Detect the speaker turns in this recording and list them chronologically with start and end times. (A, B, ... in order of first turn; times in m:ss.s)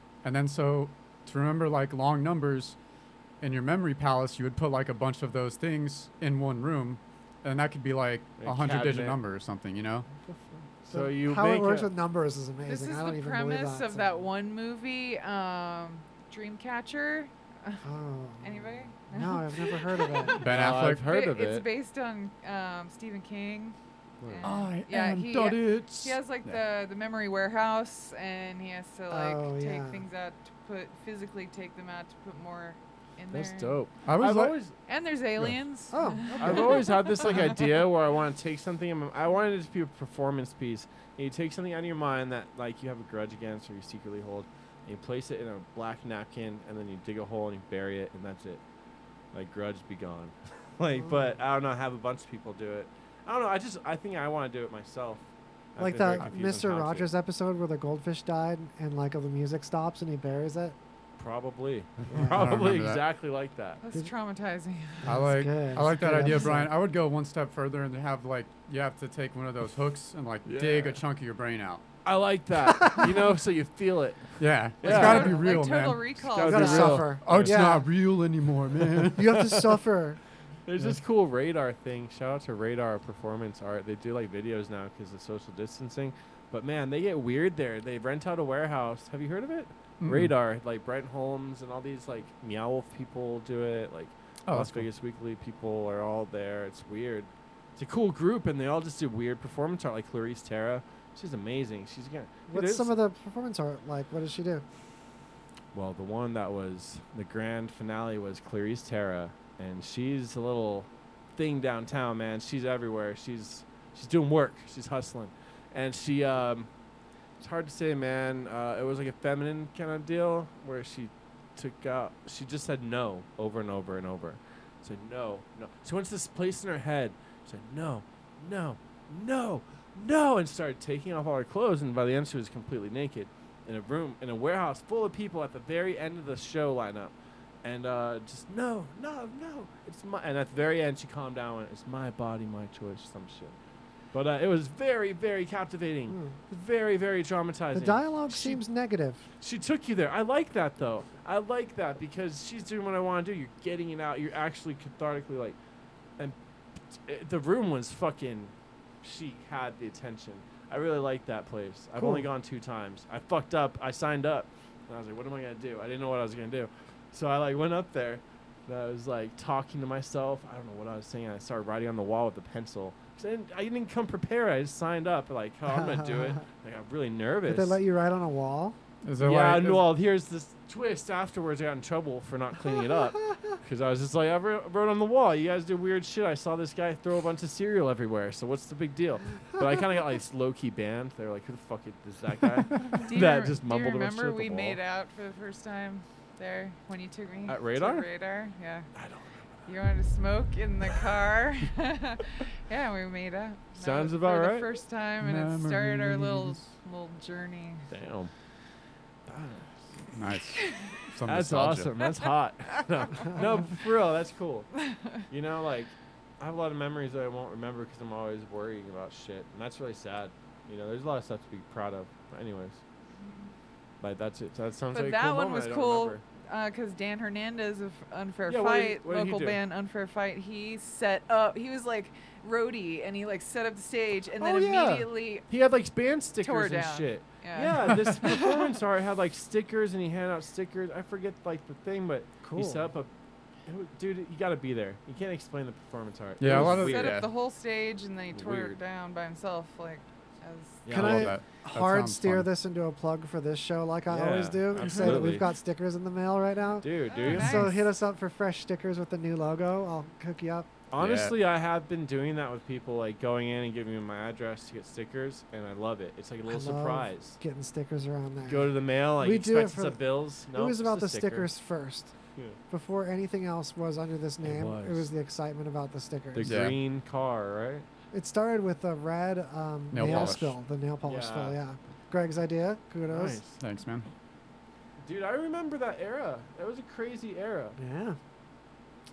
0:00.2-0:02.8 A
0:03.4-0:10.1 A
0:08.4-0:09.2 B
0:10.2-0:14.3 C
0:10.9-0:11.9 B
0:12.6-0:17.8 D
0:17.8-0:20.4 C
0:18.4-0:20.4 D
0:20.4-0:21.1 A
0:20.4-0:21.7 B
0:21.0-0:33.8 D
0:24.2-0:24.5 B
0:24.4-0:26.6 A
0:29.1-0:30.0 C
0:33.3-0:34.7 B
0:34.0-0:34.6 A
0:34.9-0:37.3 D
0:35.9-0:37.3 C
0:36.4-0:48.6 B
0:49.3-0:55.2 B
0:51.0-0:51.3 C
0:55.7-0:57.1 B
0:55.8-1:00.8 C
1:01.2-1:03.8 B
1:02.1-1:02.5 C
1:02.1-1:03.0 A
1:03.8-1:05.1 D
1:05.0-1:06.7 C
1:05.0-1:11.8 A
1:10.4-1:11.0 B
1:12.0-1:15.4 B
1:12.7-1:13.1 C
1:14.4-1:19.3 A
1:14.8-1:17.1 D
1:16.3-1:17.7 B
1:16.4-1:17.9 C
1:19.0-1:20.2 C
1:19.3-1:19.8 B
1:20.6-1:42.9 B
1:30.0-1:30.3 A
1:34.5-1:34.9 A
1:42.5-1:44.6 C
1:45.7-1:56.7 B
1:57.4-2:23.6 B
2:24.1-2:28.6 B
2:26.1-2:26.4 C
2:27.7-2:29.2 C
2:29.4-2:35.6 B
2:36.9-2:57.8 B
2:41.9-2:42.3 C
2:55.7-2:56.4 C
2:57.4-2:58.8 C
2:59.0-2:59.9 A
2:59.2-3:14.8 B
3:02.9-3:03.4 C
3:12.8-3:18.9 D
3:17.5-3:18.1 B
3:18.9-3:19.5 B
3:19.7-3:27.9 D
3:23.8-3:24.7 B
3:25.2-3:26.6 A
3:27.9-3:28.3 B
3:29.3-3:29.9 B
3:30.1-3:31.9 A
3:31.2-3:34.7 B
3:34.8-3:35.2 D
3:35.3-3:42.8 B
3:44.0-3:46.2 B
3:44.9-3:55.4 D
3:48.5-3:49.6 B
3:54.4-4:03.1 B
3:56.4-3:58.6 D
4:02.4-4:02.9 C
4:03.7-4:07.2 B
4:06.4-4:07.3 A
4:06.4-4:10.8 D
4:08.3-4:08.8 B
4:10.8-4:11.3 B
4:10.9-4:20.7 C
4:10.9-4:12.5 A
4:14.1-4:15.5 B
4:16.8-4:17.7 B
4:17.1-4:17.8 D
4:20.9-4:27.4 B
4:21.0-4:21.4 A
4:26.4-4:32.1 C
4:28.5-4:31.5 B
4:32.7-4:36.6 C
4:34.4-4:35.1 B
4:36.3-4:37.9 B
4:36.4-4:36.8 A
4:38.1-4:43.4 C
4:39.9-4:40.6 A
4:40.0-4:40.4 B
4:41.0-4:41.6 B
4:43.1-4:43.6 B
4:43.6-4:44.1 A
4:45.0-4:47.8 B
4:47.8-4:48.2 C